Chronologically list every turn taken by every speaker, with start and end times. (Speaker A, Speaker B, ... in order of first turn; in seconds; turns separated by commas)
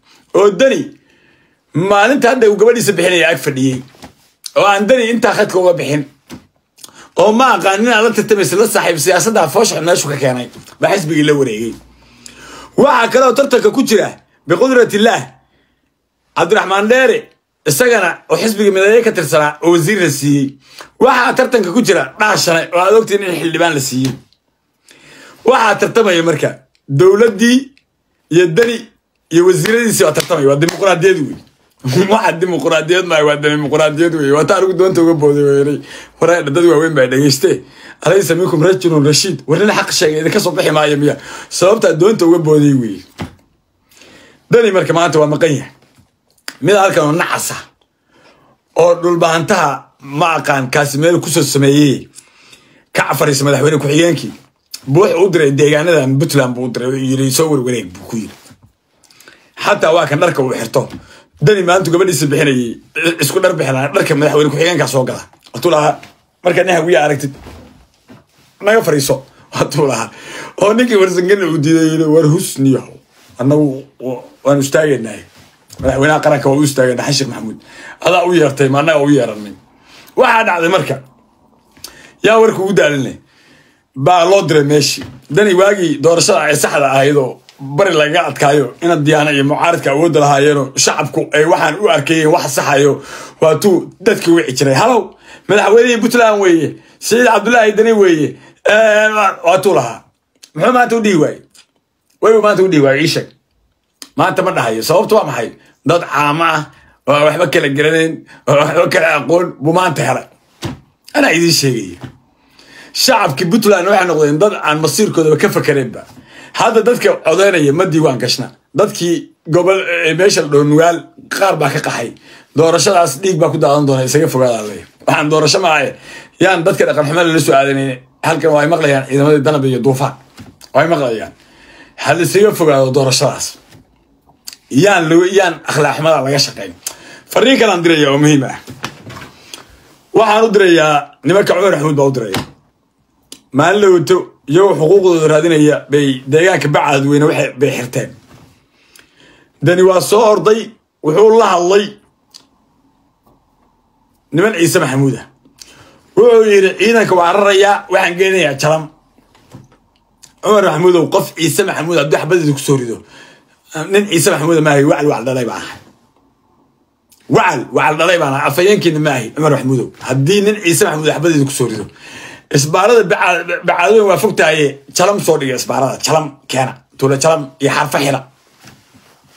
Speaker A: 0.3-0.9, Speaker A: 1.7-3.8, Speaker A: 4.5-6.1, Speaker A: 7.2-11.8, Speaker A: 12.8-15.3, Speaker A: 16.4-24.2, Speaker A: 25.4-27.7, Speaker A: 28.3-43.0, Speaker A: 44.5-45.7, Speaker A: 46.6-47.6, Speaker A: 48.8-52.1, Speaker A: 52.9-54.3, Speaker A: 54.9-58.3, Speaker A: 59.6-67.3, Speaker A: 68.6-75.3, Speaker A: 75.8-79.6, Speaker A: 80.2-81.0, Speaker A: 82.2-83.2, Speaker A: 84.0-100.0, Speaker A: 100.5-101.4, Speaker A: 102.2-103.3, Speaker A: 104.2-110.3, Speaker A: 111.1-112.0, Speaker A: 112.9-130.2, Speaker A: 130.7-131.3, Speaker A: 132.0-133.6, Speaker A: 134.7-136.8, Speaker A: 137.3-138.6, Speaker A: 140.1-142.4, Speaker A: 143.5-148.1, Speaker A: 149.6-151.9, Speaker A: 154.3-155.3, Speaker A: 156.2-158.9, Speaker A: 160.4-163.0, Speaker A: 163.7-165.8, Speaker A: 167.3-171.9, Speaker A: 172.5-178.2